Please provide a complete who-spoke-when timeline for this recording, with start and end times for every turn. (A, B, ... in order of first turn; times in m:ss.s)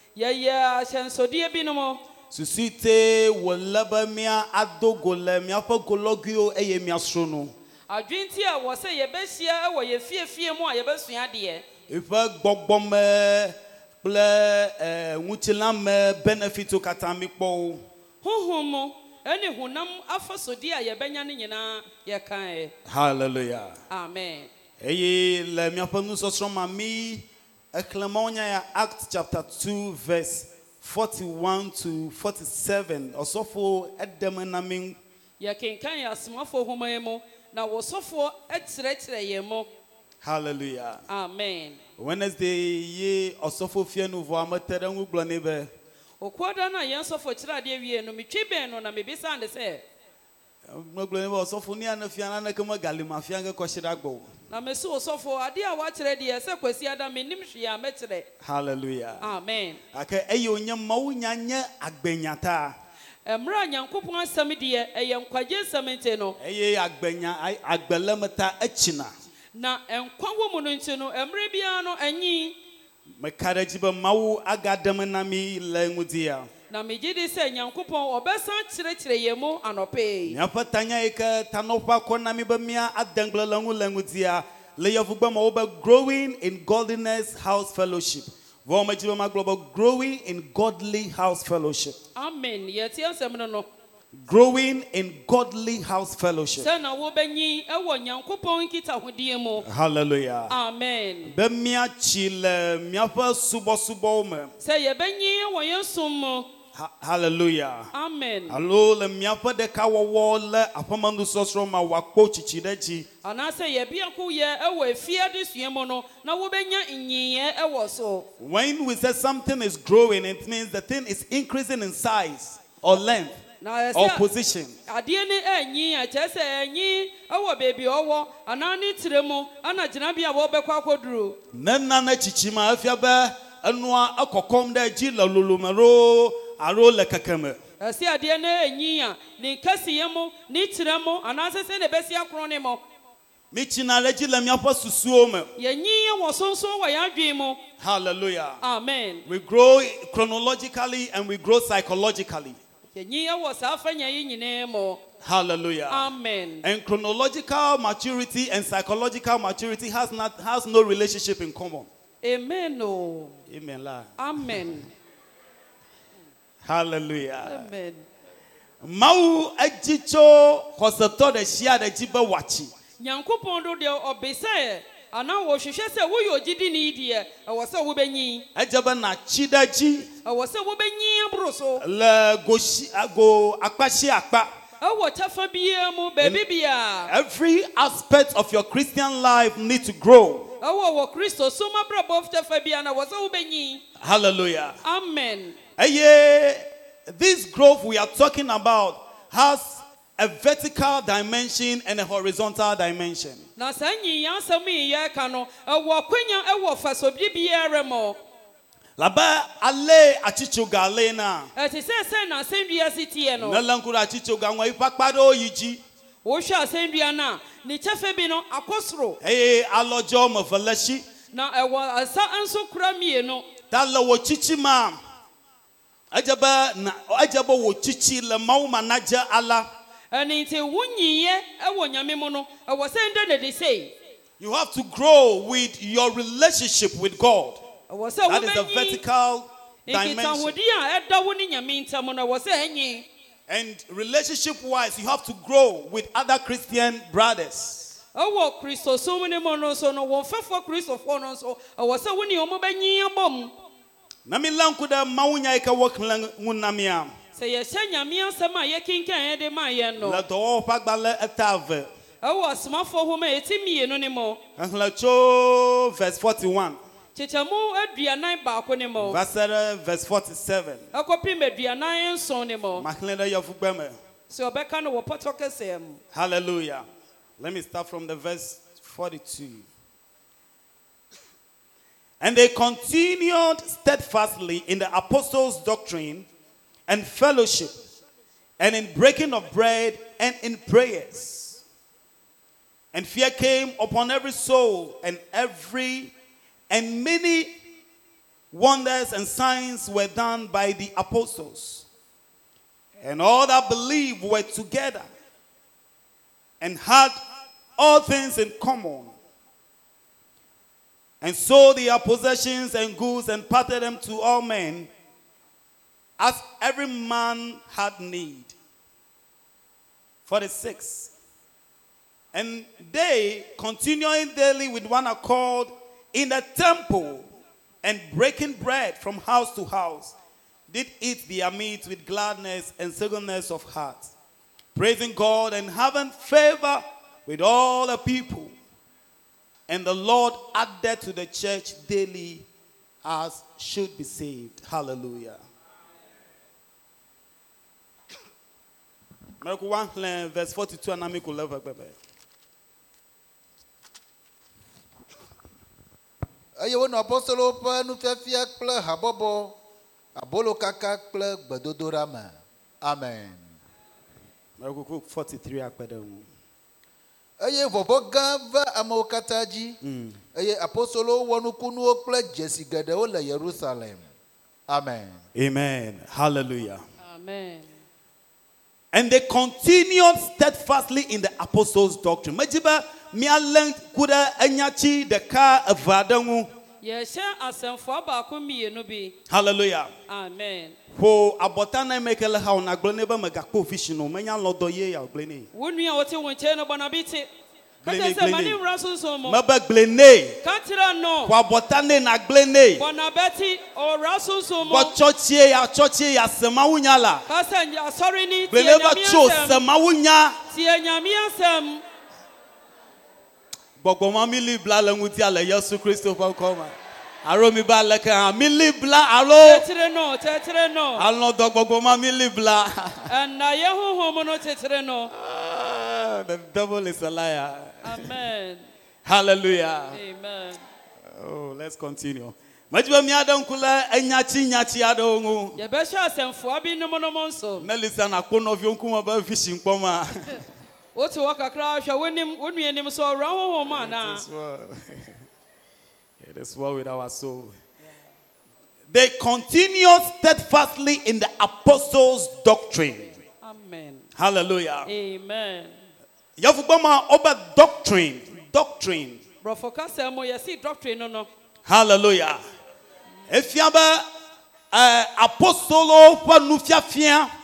0:00.2-0:02.0 A
0:02.3-0:07.5 B
0:07.9-0:11.6 A
0:11.9-0:17.8 B
0:18.2-0:22.7 A
0:22.9-0:23.8 B
0:23.9-0:24.5 A
0:24.8-0:35.0 B
0:35.4-0:39.7 A
0:40.2-0:41.0 B
0:41.1-0:41.8 A
0:42.0-0:45.7 B
0:46.2-0:49.8 A
0:50.7-0:54.3 B
0:54.5-0:58.3 A
0:58.4-0:59.3 B
0:59.2-0:59.8 A
0:59.9-1:02.8 B
1:03.2-1:06.4 A
1:06.4-1:09.1 B
1:09.6-1:12.6 A
1:13.2-1:16.5 B
1:16.7-1:20.4 A
1:20.3-1:32.0 B
1:32.2-1:33.7 A
1:34.1-1:36.7 B
1:36.6-1:39.6 A
1:39.6-1:40.6 B
1:40.5-1:41.3 A
1:41.3-1:44.5 B
1:44.6-1:46.5 A
1:46.8-1:47.9 B
1:47.9-1:48.6 A
1:48.5-1:53.1 B
1:53.2-1:58.3 A
1:58.4-2:03.4 B
2:03.6-2:04.2 A
2:04.0-2:04.8 B
2:04.9-2:11.4 A
2:11.5-2:17.6 B
2:17.8-2:22.8 A
2:23.5-2:25.5 B
2:25.6-2:27.6 A
2:27.8-2:28.6 B
2:28.6-2:29.2 A
2:29.3-2:32.6 B
2:32.9-2:35.0 A
2:35.2-2:36.1 B
2:35.9-2:36.6 A
2:36.6-2:41.9 B
2:42.2-2:43.4 A
2:43.5-2:44.2 B
2:44.2-2:44.9 A
2:46.6-2:47.7 B
2:47.4-2:48.1 A
2:48.8-2:52.7 B
2:53.0-2:58.5 A
2:58.6-3:00.1 B
3:00.2-3:01.8 A
3:01.8-3:04.5 B
3:04.8-3:07.1 A
3:07.1-3:10.5 B
3:10.6-3:13.8 A
3:14.0-3:14.8 B
3:14.8-3:15.6 A
3:15.8-3:23.5 B
3:23.6-3:28.2 A
3:29.0-3:31.5 B
3:31.6-3:33.6 A
3:33.4-3:35.8 B
3:36.2-3:39.2 A
3:39.2-3:41.0 B
3:41.3-3:43.5 A
3:43.7-3:45.0 B
3:46.1-3:49.7 B
3:50.1-3:53.9 A
3:54.4-3:57.6 B
3:57.9-3:59.0 A
3:58.3-4:00.5 B
3:59.9-4:03.1 A
4:03.5-4:08.0 B
4:08.2-4:13.5 A
4:14.2-4:17.1 B
4:17.4-4:20.2 A
4:20.0-4:21.9 B
4:22.2-4:24.4 A
4:24.6-4:26.8 B
4:27.2-4:29.2 A
4:29.0-4:30.9 B
4:30.9-4:32.9 A
4:32.8-4:34.0 B
4:34.3-4:36.0 A
4:36.1-4:36.8 B
4:37.4-4:39.7 B
4:42.2-4:46.3 B
4:46.9-4:47.7 B
4:48.6-4:51.6 B
4:52.9-4:56.1 B
4:56.7-4:57.5 B
4:58.5-5:01.9 B
5:03.0-5:05.1 B
5:06.6-5:07.2 B
5:07.8-5:09.2 B
5:11.2-5:14.9 B
5:16.2-5:18.5 B
5:20.3-5:21.1 B
5:22.3-5:27.3 B
5:27.8-5:30.1 B
5:30.7-5:34.1 B
5:34.8-5:38.6 B
5:39.7-5:42.5 B
5:43.0-5:45.4 B
5:49.4-5:52.0 B
5:56.6-5:59.6 C
6:00.2-6:03.5 C
6:04.6-6:06.3 B
6:07.4-6:09.8 C
6:09.8-6:10.2 B
6:10.4-6:14.1 C
6:14.7-6:15.2 C
6:15.4-6:16.8 B
6:17.0-6:17.7 A
6:18.9-6:26.5 B
6:26.8-6:29.2 A
6:29.3-6:29.9 B
6:30.1-6:30.8 A
6:30.9-6:35.5 B
6:35.5-6:37.3 A
6:37.8-6:38.6 B
6:37.8-6:39.4 A
6:39.3-6:40.4 B
6:40.4-6:41.3 A
6:41.3-6:42.8 B
6:42.8-6:44.9 A
6:44.6-6:47.3 B
6:47.3-6:49.6 A
6:48.5-6:50.4 B
6:50.5-6:51.8 A
6:53.8-6:59.6 B
6:59.4-7:01.0 A
7:01.0-7:03.1 B
7:03.1-7:05.1 A
7:05.1-7:08.1 B
7:07.8-7:08.7 A
7:09.0-7:10.0 B
7:09.9-7:10.6 A
7:11.1-7:15.6 B
7:15.6-7:17.7 A
7:17.6-7:20.4 B
7:21.0-7:24.2 A
7:23.7-7:25.2 B
7:26.2-7:27.6 B
7:28.9-7:33.2 B
7:33.4-7:34.1 A
7:34.2-7:34.9 B
7:34.9-7:35.8 A
7:36.4-7:39.2 B
7:39.4-7:41.3 A
7:41.7-7:42.4 B
7:43.3-7:44.0 B
7:44.7-7:47.3 B